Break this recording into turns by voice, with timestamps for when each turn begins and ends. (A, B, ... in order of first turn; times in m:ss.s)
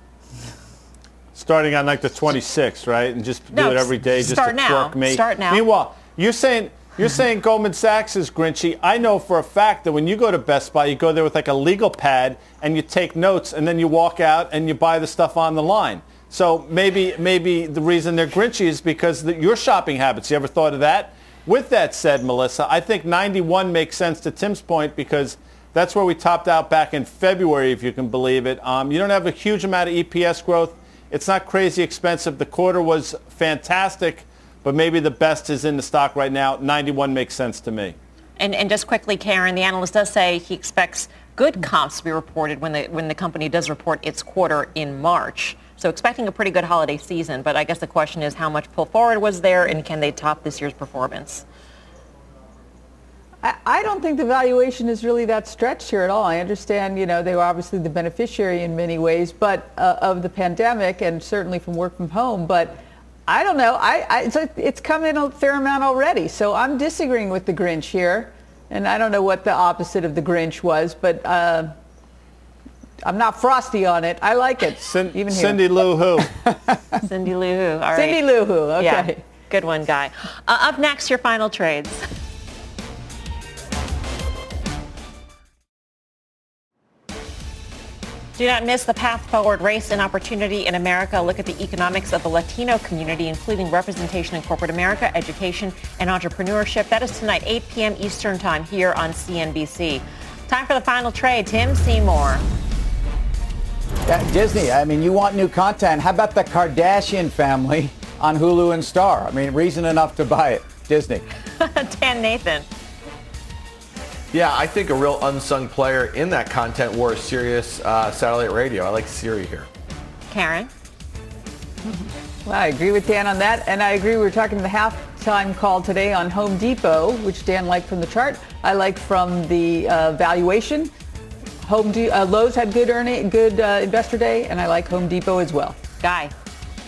0:01.3-0:38.0 A
0:03.5-0:05.6 B
0:38.4-0:51.4 B
0:53.4-1:11.7 C
1:13.0-1:16.3 C
1:14.8-1:16.3 A
1:17.0-1:18.2 B
1:17.9-1:19.2 C
1:18.8-1:22.0 B
1:28.4-1:42.4 B
1:44.0-1:51.2 D
1:51.6-1:52.7 B
1:54.3-1:59.7 E
2:00.3-2:00.7 B
2:01.8-2:10.9 C
2:11.6-2:15.8 C
2:16.0-2:16.3 B